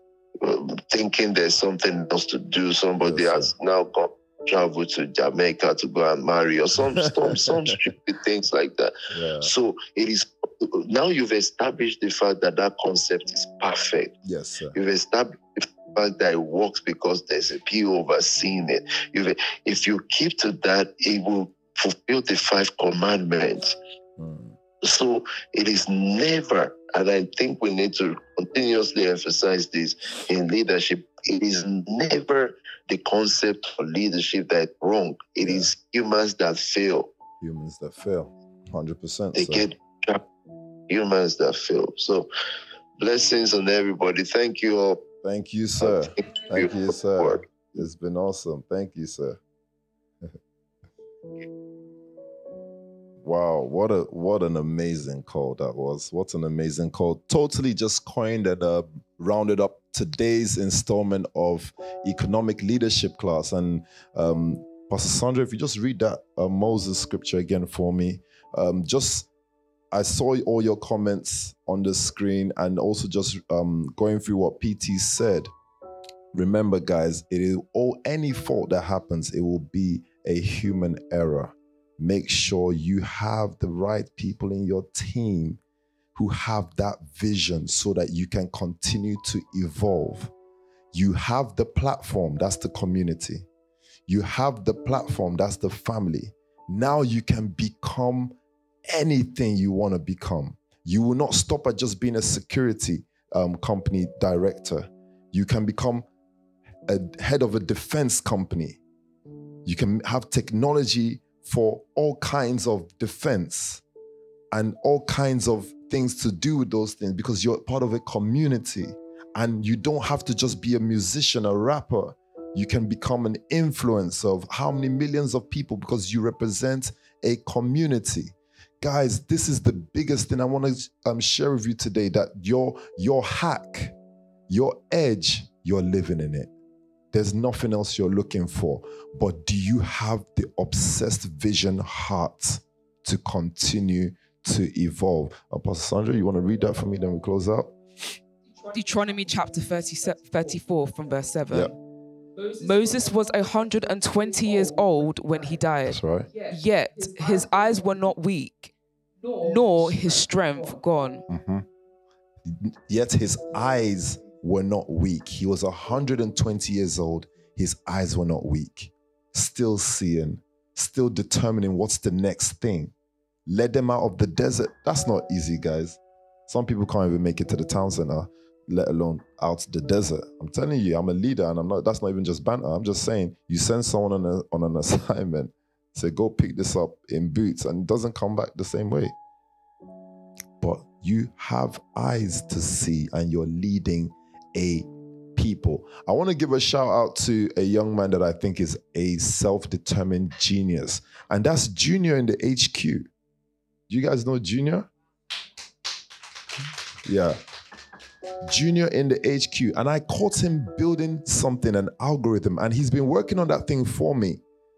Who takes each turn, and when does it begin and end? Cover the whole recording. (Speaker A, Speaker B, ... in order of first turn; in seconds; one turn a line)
Speaker A: 0.4-14.2
Speaker B: 3.0-3.5
Speaker B: 7.0-7.8
Speaker B: 9.1-9.5
Speaker B: 14.2-14.8
Speaker A: 14.7-23.8
Speaker B: 24.2-24.6
Speaker A: 24.8-37.1
Speaker B: 35.4-35.7
Speaker B: 37.4-39.7
Speaker A: 39.4-40.2
Speaker A: 40.9-42.3
Speaker A: 43.0-45.0
Speaker B: 45.2-49.4
Speaker A: 45.8-47.7
Speaker B: 53.2-69.3
Speaker B: 69.9-75.5
Speaker B: 76.3-85.6
Speaker B: 86.2-90.3
Speaker B: 90.9-93.5
Speaker B: 94.1-98.3
Speaker B: 98.9-106.1
Speaker B: 106.9-108.8
Speaker B: 109.7-113.8
Speaker B: 114.5-133.9
Speaker B: 134.5-136.5
Speaker B: 137.1-147.8
Speaker C: 148.7-151.7
Speaker C: 152.6-158.7
Speaker B: 155.8-156.3
Speaker C: 159.4-161.2
Speaker B: 161.3-161.7
Speaker B: 162.5-172.9
Speaker B: 173.5-189.2
Speaker B: 190.6-203.1
Speaker B: 203.9-204.9
Speaker B: 207.1-207.4
Speaker B: 208.5-214.4